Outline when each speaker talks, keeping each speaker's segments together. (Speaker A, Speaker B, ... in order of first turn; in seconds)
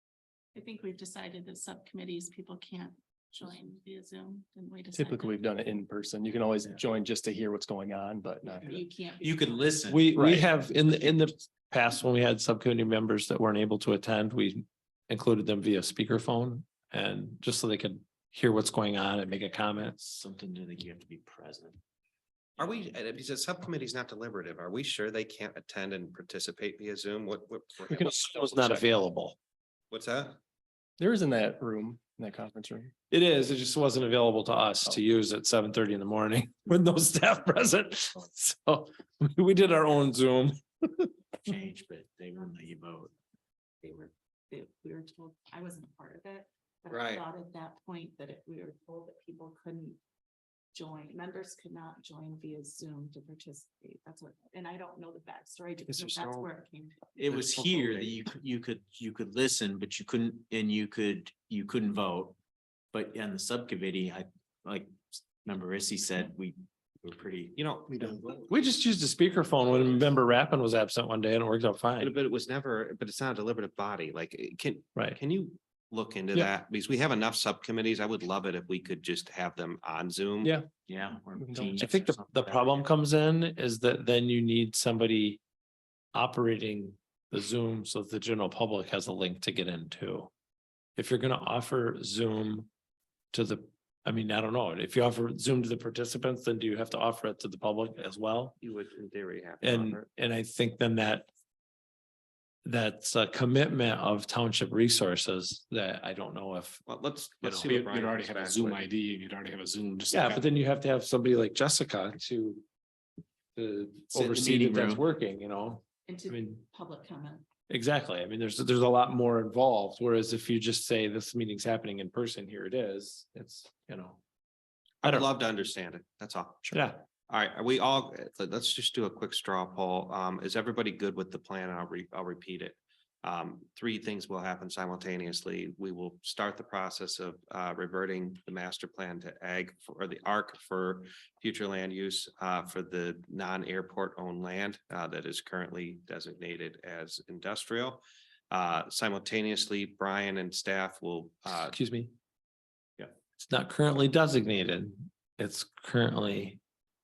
Speaker A: 0.5-5.4, 8.6-9.9, 43.8-50.0, 50.7-57.1, 116.1-117.5
Speaker B: 4.9-8.8, 10.2-10.5, 31.0-32.9, 81.4-81.9
Speaker C: 9.2-10.1, 20.1-21.8, 41.5-43.1, 57.2-62.4, 62.9-68.4, 80.9-82.8, 114.1-115.0
Speaker D: 9.9-20.2, 28.0-29.4, 33.1-41.1, 68.5-72.1, 81.8-85.4, 86.1-90.3, 91.0-92.7, 93.3-98.6, 99.6-101.3, 102.7-106.8, 107.4-107.7, 110.1-112.6, 113.5-116.6, 117.7-124.2, 126.7-127.0, 151.7-152.1, 153.4-156.6
Speaker E: 22.6-28.8, 29.9-30.4, 46.9-47.2, 55.9-56.5, 57.3-58.1, 67.6-68.1, 72.0-80.6, 98.6-100.0, 106.9-108.9, 125.0-151.8
Speaker F: 107.6-110.5